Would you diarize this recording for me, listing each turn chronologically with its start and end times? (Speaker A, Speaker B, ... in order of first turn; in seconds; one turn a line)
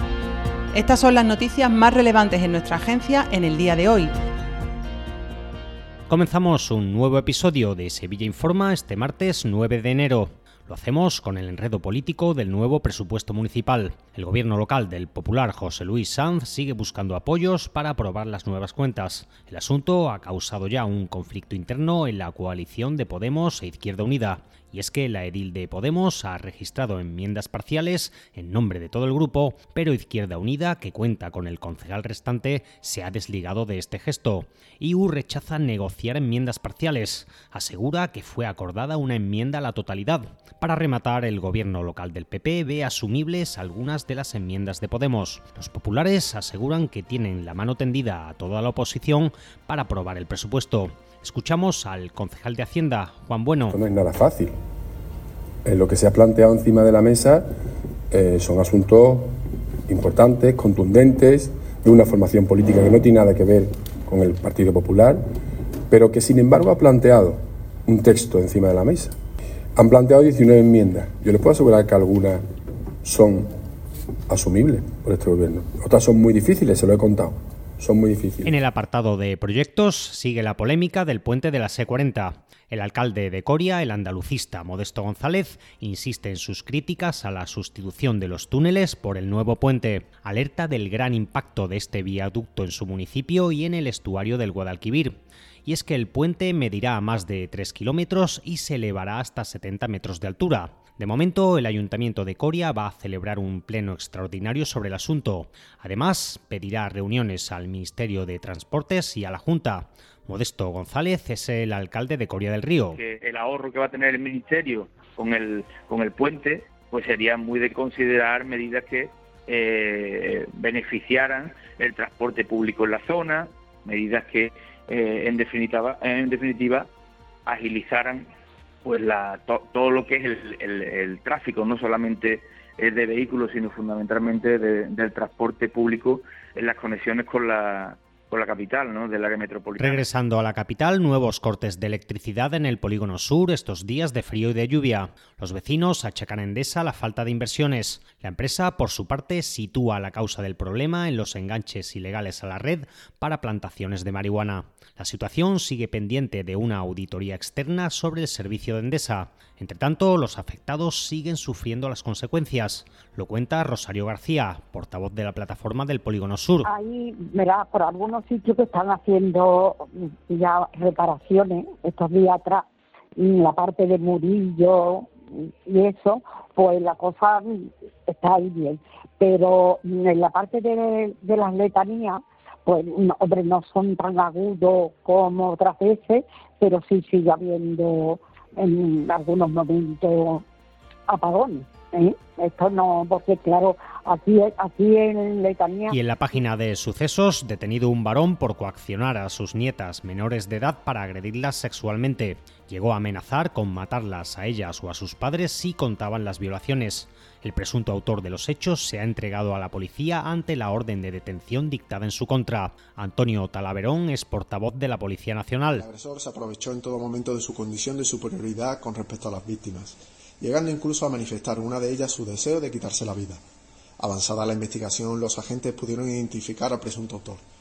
Speaker A: 0.7-4.1
Speaker B: 6.1-53.8
Speaker C: 53.7-54.5
Speaker C: 55.6-57.5
Speaker C: 58.1-59.3
Speaker C: 59.9-65.2
Speaker C: 65.9-69.2
Speaker C: 69.8-72.4
Speaker C: 73.0-73.5
Speaker C: 74.3-78.5
Speaker B: 78.4-113.0
Speaker D: 112.9-126.9
Speaker D: 127.5-128.3
Speaker D: 128.8-140.1
Speaker B: 139.8-166.7
Speaker E: 166.7-172.7
Speaker E: 173.2-190.4
Speaker E: 191.1-196.0
Speaker B: 195.9-215.9
Speaker F: 215.8-223.4
Speaker F: 224.0-227.4